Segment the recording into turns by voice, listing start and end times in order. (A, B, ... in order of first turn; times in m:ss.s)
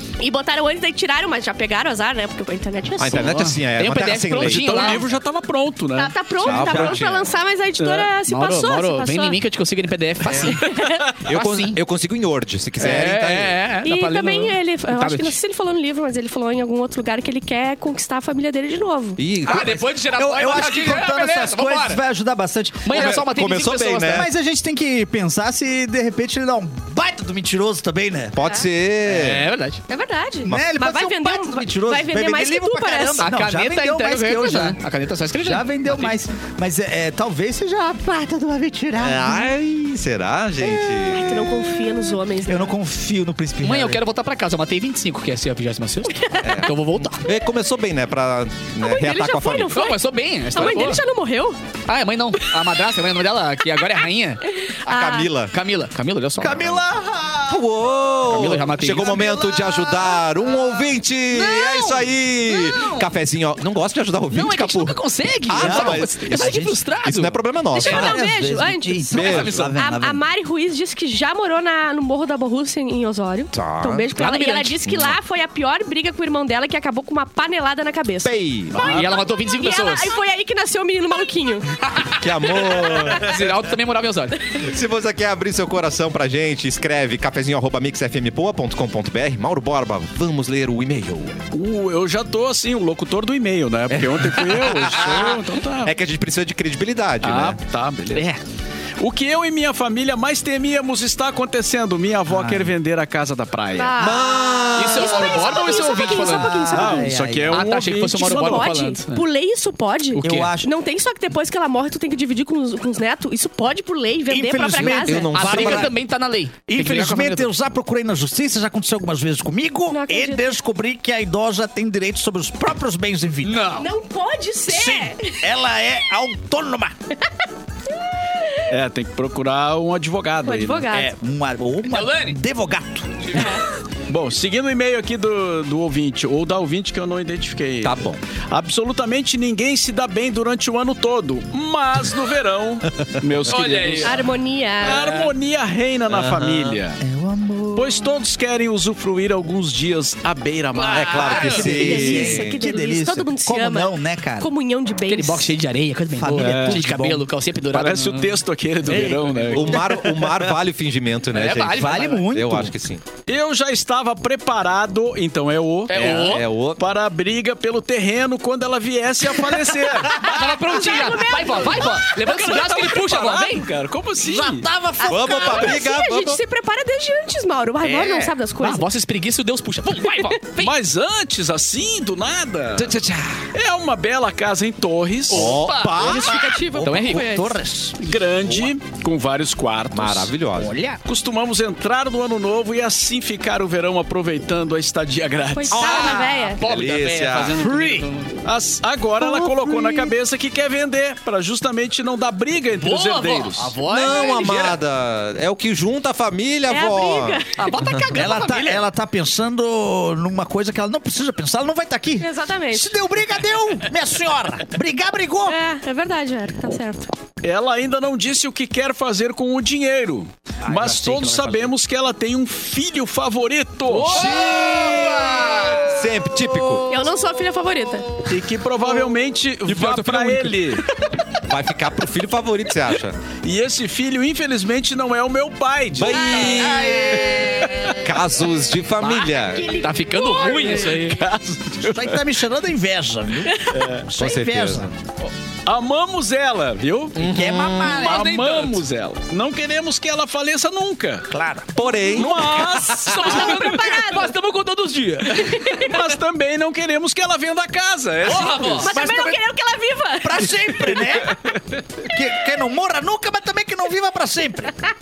0:00.2-0:03.4 A
0:03.0-0:05.1 B
0:03.0-0:05.0 C
0:04.4-0:06.2 D
0:05.9-0:09.4 A
0:06.4-0:07.3 B
0:06.4-0:07.0 E
0:07.8-0:08.1 D
0:08.3-0:11.8 C
0:10.3-0:11.1 A
0:11.2-0:13.6 B
0:12.8-0:15.4 C
0:13.8-0:19.2 A
0:19.2-0:19.8 B
0:19.4-0:22.0 C
0:19.5-0:23.2 E
0:22.8-0:24.3 C
0:22.9-0:24.3 B
0:24.1-0:28.4 E
0:28.3-0:29.4 B
0:28.4-0:28.7 A
0:29.0-0:29.8 C
0:29.9-0:33.3 A
0:30.4-0:34.8 E
0:33.2-0:36.2 C
0:35.4-0:39.5 E
0:39.0-0:41.3 B
0:40.8-0:42.7 A
0:42.4-0:44.0 E
0:43.6-0:47.3 C
0:46.1-0:46.6 A
0:46.4-0:49.7 B
0:48.8-0:50.0 A
0:49.7-0:51.0 C
0:50.5-0:51.6 A
0:51.9-0:54.4 C
0:54.5-0:55.3 A
0:54.8-0:55.5 B
0:55.5-0:56.8 C
0:56.4-0:57.7 E
0:56.5-0:56.8 B
0:57.5-1:08.2 B
0:58.3-0:59.3 C
0:59.1-1:00.3 A
1:01.3-1:03.1 C
1:04.3-1:07.4 C
1:05.5-1:06.8 E
1:07.7-1:09.1 A
1:07.8-1:10.2 E
1:09.1-1:09.7 B
1:09.1-1:09.7 C
1:09.7-1:21.7 A
1:13.5-1:14.0 B
1:14.2-1:14.8 C
1:14.8-1:15.2 B
1:18.2-1:19.0 B
1:18.8-1:20.1 C
1:21.8-1:24.4 C
1:22.2-1:23.5 B
1:22.6-1:23.1 A
1:24.5-1:31.4 B
1:31.5-1:35.9 D
1:33.9-1:37.6 B
1:37.2-1:38.3 D
1:38.1-1:38.4 C
1:39.0-1:44.0 D
1:42.3-1:42.7 E
1:43.7-1:47.1 A
1:44.0-1:45.6 B
1:44.7-1:46.9 C
1:46.7-1:47.6 E
1:46.7-1:48.8 D
1:47.5-1:49.2 C
1:48.2-1:55.3 A
1:50.2-1:50.5 C
1:50.2-1:50.7 E
1:54.3-1:56.0 E
1:54.8-1:55.9 B
1:55.3-1:57.5 C
1:56.7-2:03.6 E
1:59.9-2:00.4 A
2:03.4-2:03.9 C
2:03.8-2:05.4 A
2:04.7-2:06.9 E
2:08.3-2:08.7 A
2:08.7-2:10.9 D
2:10.4-2:11.1 A
2:10.9-2:13.3 E
2:11.8-2:12.4 C
2:13.3-2:13.6 A
2:14.1-2:24.3 D
2:17.8-2:18.2 B
2:23.0-2:23.5 B
2:23.5-2:24.2 C
2:24.0-2:25.1 A
2:24.8-2:27.0 D
2:24.8-2:25.3 C
2:26.1-2:26.8 B
2:27.0-2:28.1 E
2:27.7-2:31.5 D
2:30.7-2:31.8 C
2:30.9-2:32.6 B
2:31.2-2:35.5 A
2:31.5-2:34.5 E
2:35.0-2:38.4 C
2:36.2-2:37.2 E
2:36.4-2:36.8 D
2:37.7-2:40.0 D
2:38.9-2:40.6 E
2:39.1-2:43.0 B
2:41.3-2:42.3 C
2:41.6-2:42.8 E
2:43.3-2:54.7 D
2:45.9-2:46.4 C
2:45.9-2:46.8 B
2:50.2-2:53.7 C
2:50.4-2:52.1 A
2:54.2-2:55.8 E
2:55.0-2:58.8 A
2:55.0-2:56.4 B
2:57.8-2:58.3 E
2:58.6-3:00.7 C
3:00.0-3:00.7 A
3:00.5-3:02.9 D
3:02.8-3:03.5 B
3:03.5-3:05.6 D
3:05.3-3:06.4 B
3:05.3-3:07.4 C
3:06.0-3:07.6 A
3:06.0-3:08.0 E
3:08.0-3:10.3 D
3:09.9-3:10.8 B
3:10.6-3:11.0 E
3:11.0-3:16.0 D
3:15.5-3:16.6 A
3:15.7-3:18.4 C
3:15.8-3:17.7 B
3:17.4-3:23.8 D
3:19.2-3:20.1 E
3:22.8-3:24.8 C
3:23.8-3:28.1 B
3:26.7-3:27.9 A
3:27.6-3:28.8 C
3:28.1-3:35.6 E
3:32.2-3:32.9 A
3:35.4-3:37.1 A
3:37.4-3:44.4 D
3:40.6-3:41.7 E
3:43.9-3:46.0 C
3:44.1-3:46.8 B
3:46.4-3:46.8 E
3:46.9-3:48.1 A
3:48.3-3:50.8 D
3:49.6-3:50.8 C
3:51.5-3:53.2 B
3:53.4-3:56.3 D
3:55.9-3:57.3 B
3:56.2-3:57.8 E
3:56.3-3:56.9 A
3:57.4-3:58.0 D
3:58.0-3:59.8 B
3:59.0-4:00.9 A
3:59.0-4:01.2 C
4:00.8-4:02.2 D
4:01.8-4:04.9 E
4:03.5-4:03.8 A
4:03.7-4:04.1 D
4:04.1-4:04.9 B
4:05.3-4:07.2 D
4:07.2-4:08.2 E
4:07.2-4:08.0 B
4:08.0-4:08.8 C
4:08.0-4:11.3 D
4:11.3-4:11.8 E
4:11.8-4:13.2 B
4:12.1-4:13.6 D
4:12.2-4:16.0 C
4:13.0-4:14.3 A
4:15.3-4:16.0 A
4:15.7-4:18.9 D
4:18.2-4:19.0 C
4:18.6-4:19.4 E
4:18.8-4:21.0 A
4:20.2-4:21.4 E
4:21.3-4:21.8 D
4:22.0-4:24.8 E